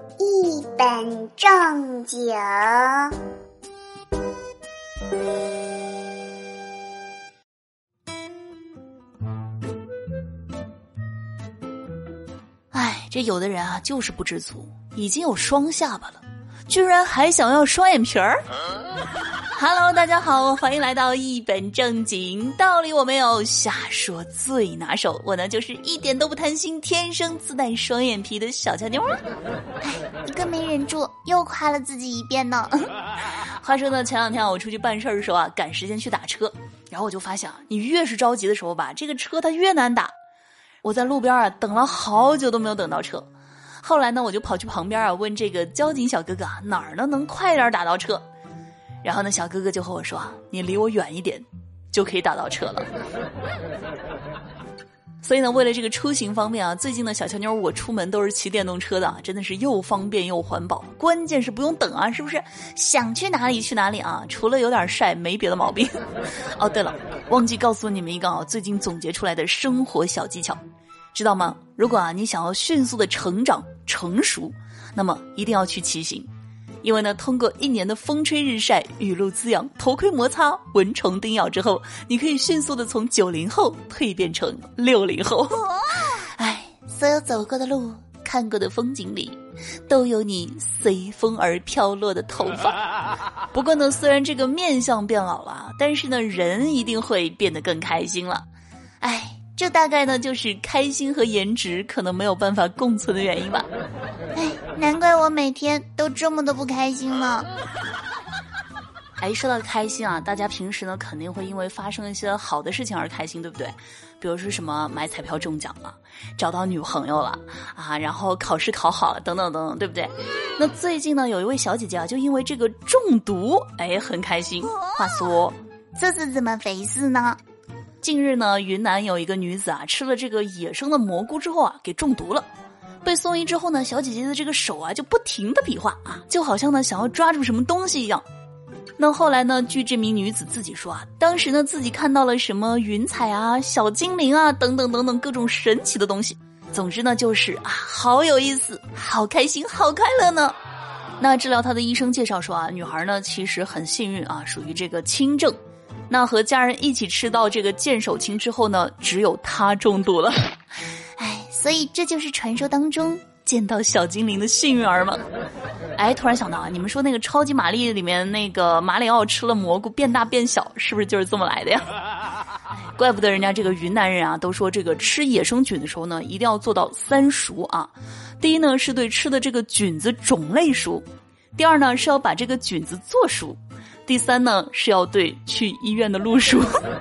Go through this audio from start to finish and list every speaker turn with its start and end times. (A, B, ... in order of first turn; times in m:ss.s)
0:00.2-0:03.1 A
0:12.7-0:18.4 B
0:19.5-0:29.2 B
0:29.8-0:32.9 A
0:33.3-0:40.1 B
0:40.8-0:43.3 B
0:43.8-0:48.2 B
0:49.0-0:52.9 B
0:55.2-1:06.0 B
1:06.5-1:10.6 B
1:11.1-1:16.3 B
1:16.8-1:32.8 B
1:33.5-1:38.4 B
1:39.0-1:43.7 B
1:44.4-1:47.5 A
1:49.2-2:07.4 B
2:06.2-2:07.0 A
2:08.0-2:12.5 B
2:13.0-2:18.2 B
2:19.0-2:30.6 B
2:31.2-2:35.6 B
2:36.1-2:40.5 B
2:41.2-2:45.2 B
2:46.0-2:51.9 B
2:52.7-3:01.0 B
3:01.6-3:06.8 B